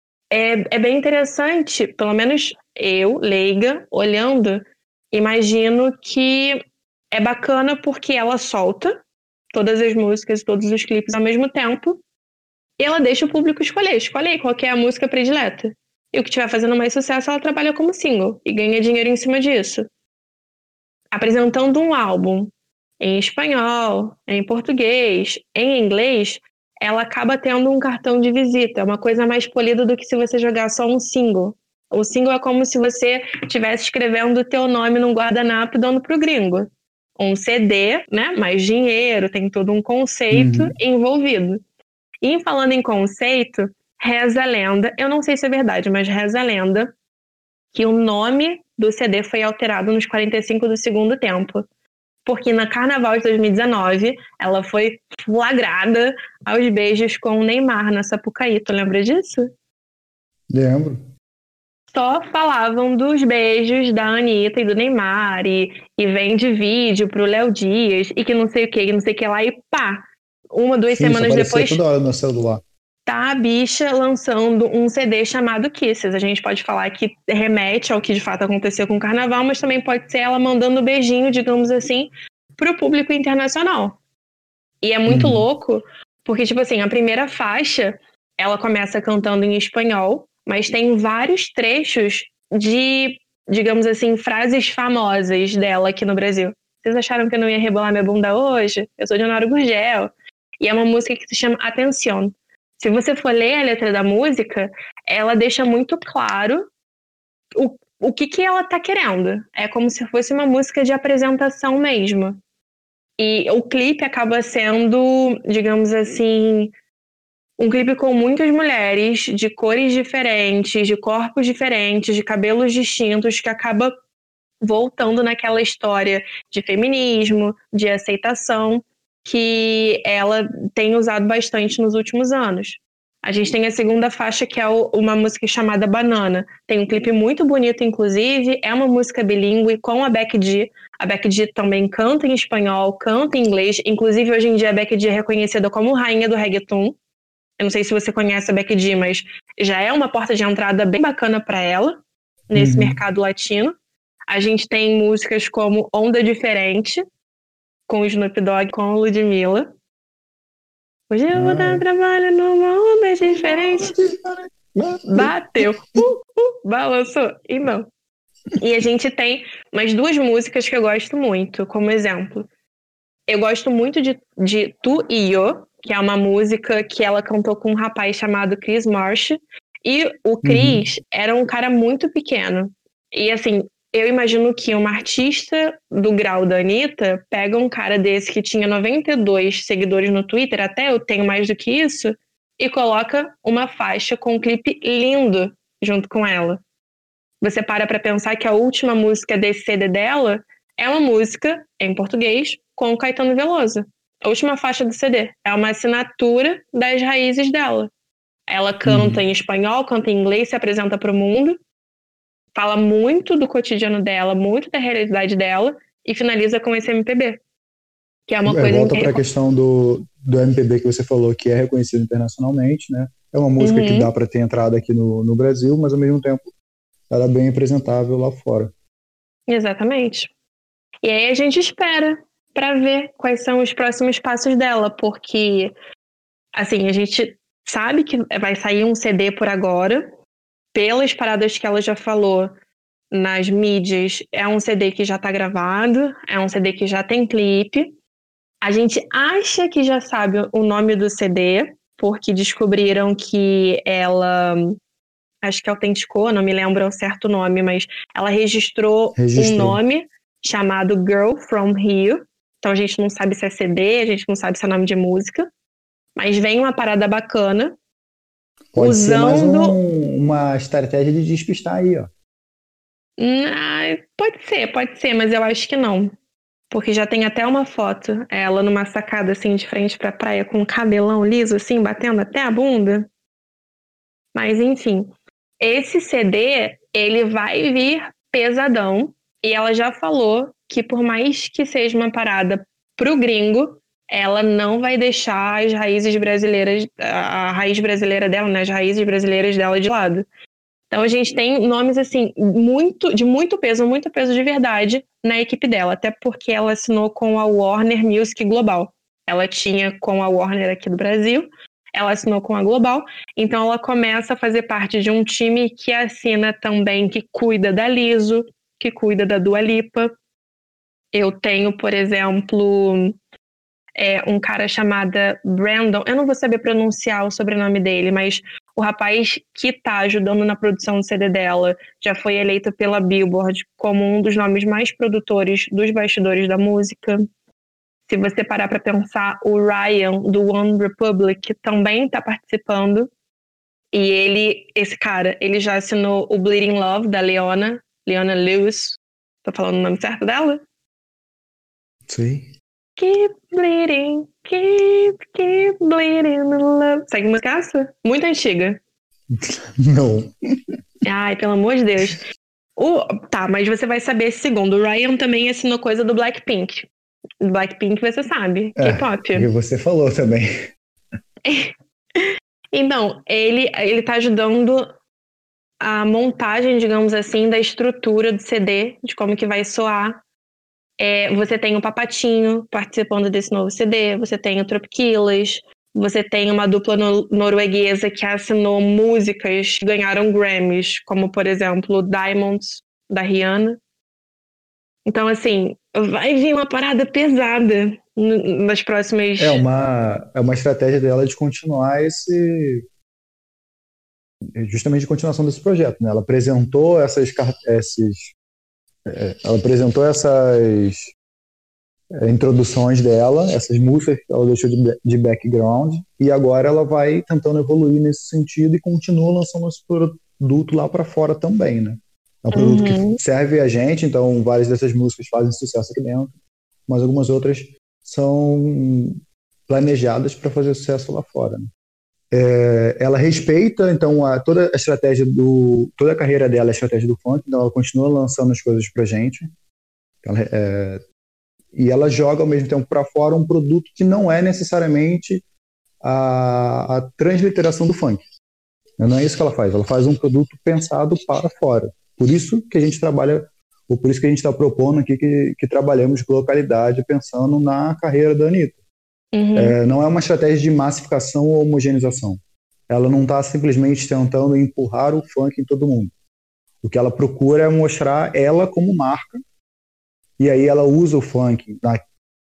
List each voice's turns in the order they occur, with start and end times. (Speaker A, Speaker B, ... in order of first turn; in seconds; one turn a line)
Speaker A: 0.3-6.6
Speaker A: 7.1-9.0
Speaker A: 9.5-12.0
Speaker A: 12.8-19.9
Speaker A: 21.1-36.7
Speaker A: 37.2-41.6
Speaker B: 40.3-40.7
Speaker A: 42.2-46.9
Speaker A: 47.7-51.6
Speaker A: 52.3-59.5
Speaker B: 60.5-61.1
Speaker A: 61.9-71.8
Speaker B: 70.9-72.6
Speaker A: 73.1-84.0
Speaker A: 84.8-106.7
Speaker B: 85.1-85.5
Speaker A: 107.6-112.4
Speaker A: 113.2-116.7
Speaker A: 117.6-123.9
Speaker A: 124.6-147.0
Speaker A: 147.6-152.0
Speaker A: 152.5-153.8
Speaker B: 152.6-153.0
Speaker A: 154.3-157.0
Speaker A: 157.9-159.7
Speaker A: 161.1-163.9
Speaker B: 161.3-161.8
Speaker B: 163.3-165.7
Speaker A: 165.1-167.9
Speaker A: 168.6-172.5
Speaker A: 173.3-196.6
Speaker B: 180.4-180.8
Speaker A: 197.4-207.9
Speaker A: 208.5-211.6
Speaker B: 208.9-209.2
Speaker A: 212.6-217.4
Speaker A: 218.3-219.2
Speaker B: 218.5-226.4
Speaker A: 223.6-224.1
Speaker B: 227.1-228.7
Speaker A: 229.5-230.3
Speaker A: 231.0-235.7
Speaker A: 236.6-240.1
Speaker A: 240.8-242.5
Speaker A: 243.1-248.0
Speaker A: 248.6-254.8
Speaker A: 255.4-265.5
Speaker B: 259.2-259.8
Speaker A: 266.2-267.7
Speaker B: 268.7-272.1
Speaker A: 268.8-269.8
Speaker A: 273.2-276.1
Speaker A: 276.7-283.1
Speaker A: 284.4-300.3
Speaker A: 300.9-320.1
Speaker A: 321.1-323.2
Speaker A: 324.0-337.2
Speaker A: 338.1-343.1
Speaker A: 343.9-350.6
Speaker B: 352.1-352.5
Speaker A: 353.0-358.8
Speaker B: 359.3-360.8
Speaker A: 361.0-362.2
Speaker A: 362.8-366.9
Speaker A: 367.4-369.5
Speaker B: 368.8-370.5
Speaker A: 371.4-374.9
Speaker A: 375.8-380.2
Speaker A: 381.0-393.8
Speaker A: 395.1-399.6
Speaker B: 399.4-402.8
Speaker B: 404.6-408.3
Speaker B: 409.1-411.1
Speaker B: 412.2-426.4
Speaker A: 422.5-423.2
Speaker B: 426.9-431.7
Speaker B: 432.3-439.5
Speaker B: 440.2-441.0
Speaker B: 441.7-445.4
Speaker B: 446.0-448.2
Speaker B: 449.0-458.8
Speaker A: 459.4-459.8
Speaker B: 459.6-466.1
Speaker B: 466.8-469.4
Speaker B: 470.4-472.0